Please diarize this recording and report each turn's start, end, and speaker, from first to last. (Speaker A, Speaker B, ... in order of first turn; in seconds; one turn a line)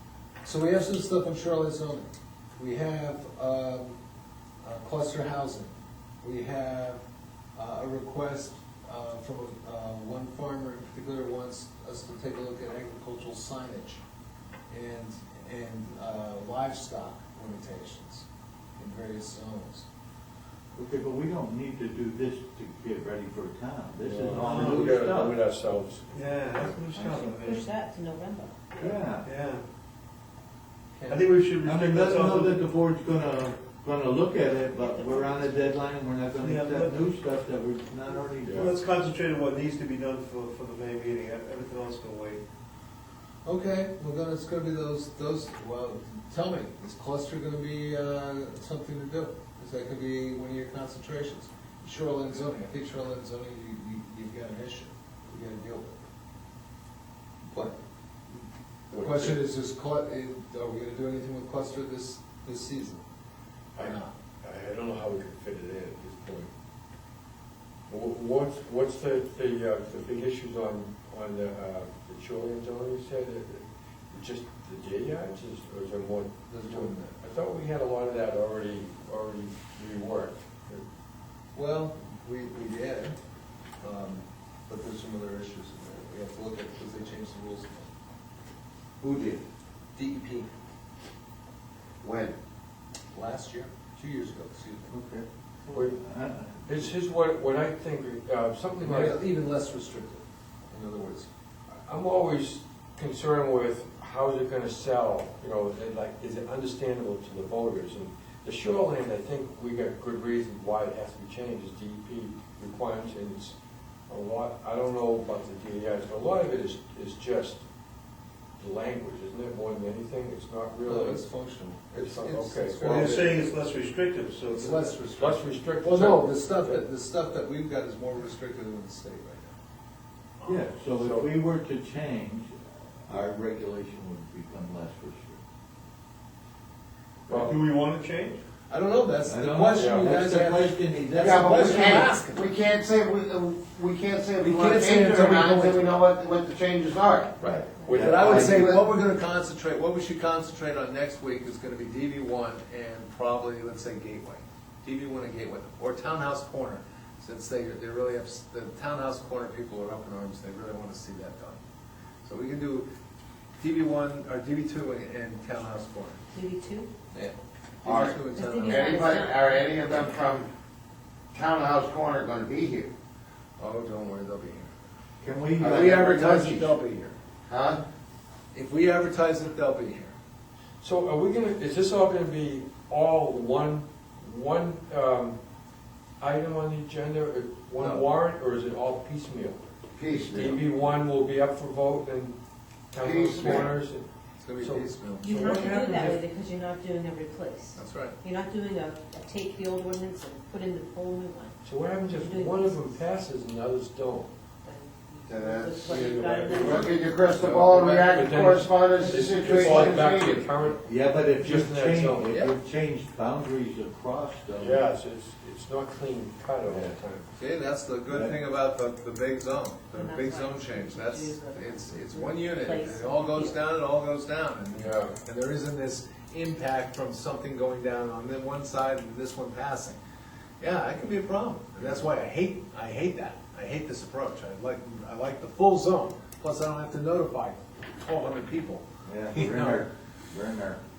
Speaker A: 0.5-4.0
Speaker A: 4.6-7.0
Speaker A: 7.6-14.0
Speaker A: 14.7-18.3
Speaker A: 18.8-19.9
Speaker B: 20.8-25.4
Speaker C: 24.0-26.1
Speaker D: 24.3-25.0
Speaker D: 26.1-27.7
Speaker E: 26.6-29.0
Speaker B: 28.8-29.3
Speaker D: 29.2-29.6
Speaker A: 30.9-31.3
Speaker D: 31.1-32.7
Speaker B: 31.6-38.7
Speaker E: 34.8-35.6
Speaker D: 36.3-37.0
Speaker C: 38.4-38.7
Speaker D: 38.5-42.4
Speaker A: 43.5-56.0
Speaker A: 57.5-57.8
Speaker A: 58.9-63.0
Speaker C: 58.9-59.4
Speaker C: 63.8-66.5
Speaker A: 63.8-64.1
Speaker C: 67.9-80.8
Speaker A: 76.5-77.2
Speaker A: 81.5-83.2
Speaker A: 83.8-87.9
Speaker F: 89.0-89.4
Speaker A: 90.0-90.5
Speaker F: 92.0-92.3
Speaker A: 93.1-94.9
Speaker B: 94.9-96.9
Speaker C: 95.7-96.0
Speaker C: 96.7-99.2
Speaker A: 98.8-101.3
Speaker C: 101.8-113.5
Speaker C: 114.1-117.6
Speaker C: 118.6-121.3
Speaker A: 120.8-123.4
Speaker C: 122.0-123.1
Speaker D: 122.8-125.0
Speaker A: 124.5-129.6
Speaker C: 125.2-126.8
Speaker B: 130.4-135.4
Speaker C: 131.0-131.3
Speaker C: 137.3-137.6
Speaker D: 137.3-138.4
Speaker A: 138.7-142.6
Speaker B: 139.3-142.1
Speaker C: 139.8-140.1
Speaker F: 141.2-147.4
Speaker A: 144.4-146.0
Speaker B: 147.4-148.7
Speaker A: 147.4-161.6
Speaker C: 147.9-148.6
Speaker F: 148.2-148.8
Speaker A: 162.2-162.9
Speaker A: 163.6-166.2
Speaker E: 166.3-166.9
Speaker A: 167.1-169.1
Speaker F: 167.8-170.5
Speaker E: 168.3-170.0
Speaker F: 171.3-172.9
Speaker A: 173.6-174.7
Speaker B: 175.2-175.9
Speaker A: 175.6-177.2
Speaker F: 175.6-176.8
Speaker F: 177.5-177.8
Speaker A: 178.5-180.1
Speaker C: 180.8-185.4
Speaker C: 186.2-189.6
Speaker A: 187.8-188.1
Speaker F: 190.0-190.6
Speaker C: 190.3-192.4
Speaker C: 192.9-194.1
Speaker F: 193.0-193.7
Speaker A: 194.4-195.3
Speaker C: 194.6-196.2
Speaker E: 195.2-202.9
Speaker A: 197.8-198.2
Speaker C: 201.6-204.3
Speaker E: 204.6-207.0
Speaker F: 205.3-210.5
Speaker C: 205.9-212.3
Speaker B: 210.8-214.8
Speaker A: 212.3-212.5
Speaker C: 214.6-217.3
Speaker A: 217.4-230.0
Speaker B: 218.1-218.3
Speaker E: 219.9-223.6
Speaker C: 224.7-225.2
Speaker A: 230.6-239.8
Speaker B: 239.1-240.8